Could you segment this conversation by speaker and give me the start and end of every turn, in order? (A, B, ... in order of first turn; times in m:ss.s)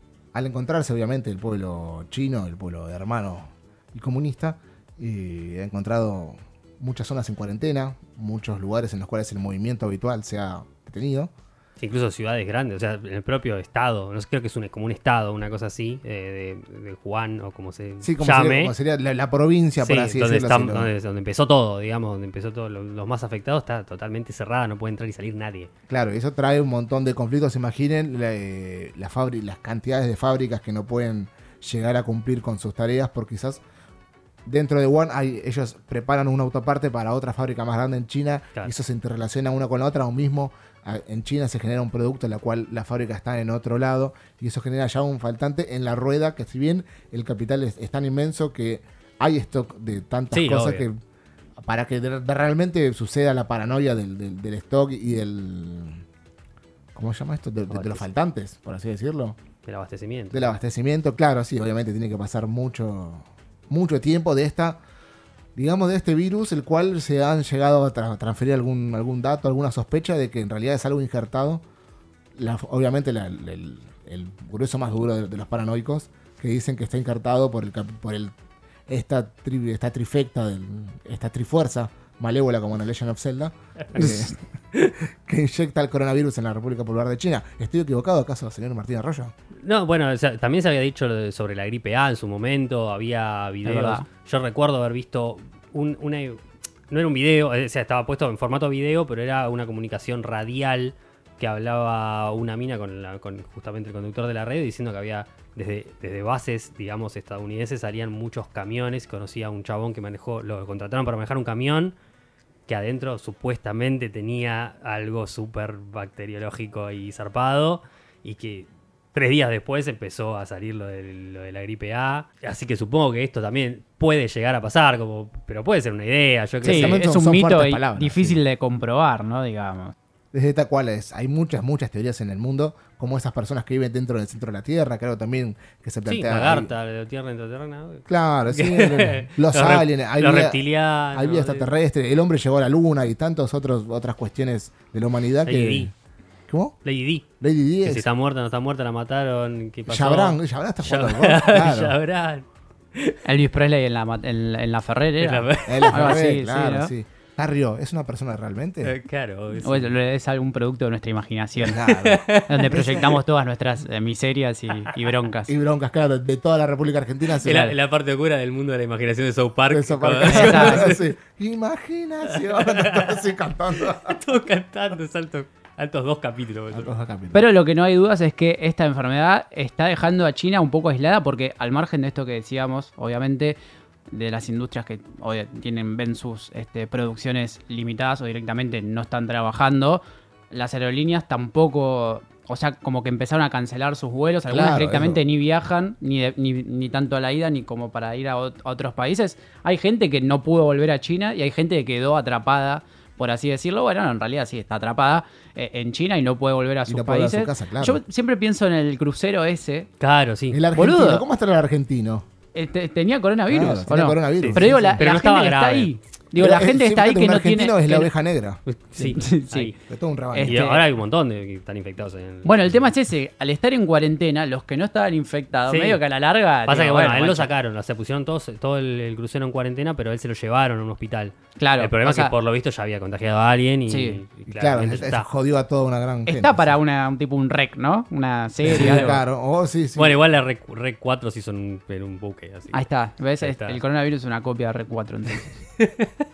0:00.3-0:11.3 A
0:11.8-0:18.8 B
0:18.0-0:20.9 A
0:19.8-0:25.7 B
0:25.9-0:33.6 A
0:34.5-0:51.0 A
0:50.3-0:50.9 B
0:51.6-0:56.0 A
0:57.0-0:59.4 A
0:57.7-0:58.0 B
0:59.7-1:00.5 B
1:00.3-1:04.8 A
1:05.6-1:11.6 A
1:12.4-1:18.3 A
1:18.9-1:24.4 A
1:24.0-1:24.3 C
1:25.1-1:29.3 A
1:29.6-1:52.0 B
1:33.6-1:34.1 C
1:52.7-2:07.0 B
2:06.6-2:08.4 A
2:06.6-2:09.9 C
2:10.3-2:16.7 A
2:16.1-2:21.7 B
2:18.1-2:20.6 A
2:21.1-2:25.9 A
2:25.4-2:25.9 B
2:26.5-2:26.8 A
2:26.8-2:27.2 B
2:27.4-2:28.1 A
2:27.8-2:33.2 B
2:29.9-2:32.0 A
2:33.2-2:36.9 C
2:35.2-2:36.2 B
2:35.7-2:38.9 A
2:38.8-2:39.9 B
2:39.6-2:41.8 C
2:41.6-2:43.2 A
2:41.8-2:43.2 B
2:42.5-2:45.5 C
2:45.5-2:47.7 A
2:47.4-2:51.1 B
2:47.4-2:47.7 C
2:49.7-2:54.2 A
2:50.2-2:50.9 C
2:52.3-2:53.2 B
2:53.8-2:56.9 B
2:56.7-2:57.4 A
2:57.3-3:03.6 C
3:04.1-3:29.9 C
3:14.5-3:15.2 A
3:26.9-3:28.0 A
3:30.0-3:30.6 B
3:30.5-3:32.3 A
3:30.8-3:31.2 C
3:32.5-3:38.1 C
3:33.5-3:35.0 A
3:34.4-3:35.9 B
3:36.4-3:38.6 A
3:38.7-3:39.8 B
3:39.0-3:39.7 C
3:39.9-3:40.6 A
3:40.3-3:40.8 C
3:40.4-3:42.9 B
3:42.4-3:47.5 C
3:45.7-3:46.0 B
3:46.7-3:55.3 B
3:51.6-3:52.3 C
3:53.9-3:54.2 C
3:54.5-3:56.7 A
3:56.3-3:59.2 C
3:58.6-4:00.2 A
3:58.7-3:59.2 B
4:00.0-4:02.8 B
4:02.7-4:05.5 C
4:03.4-4:03.8 B
4:05.8-4:06.1 B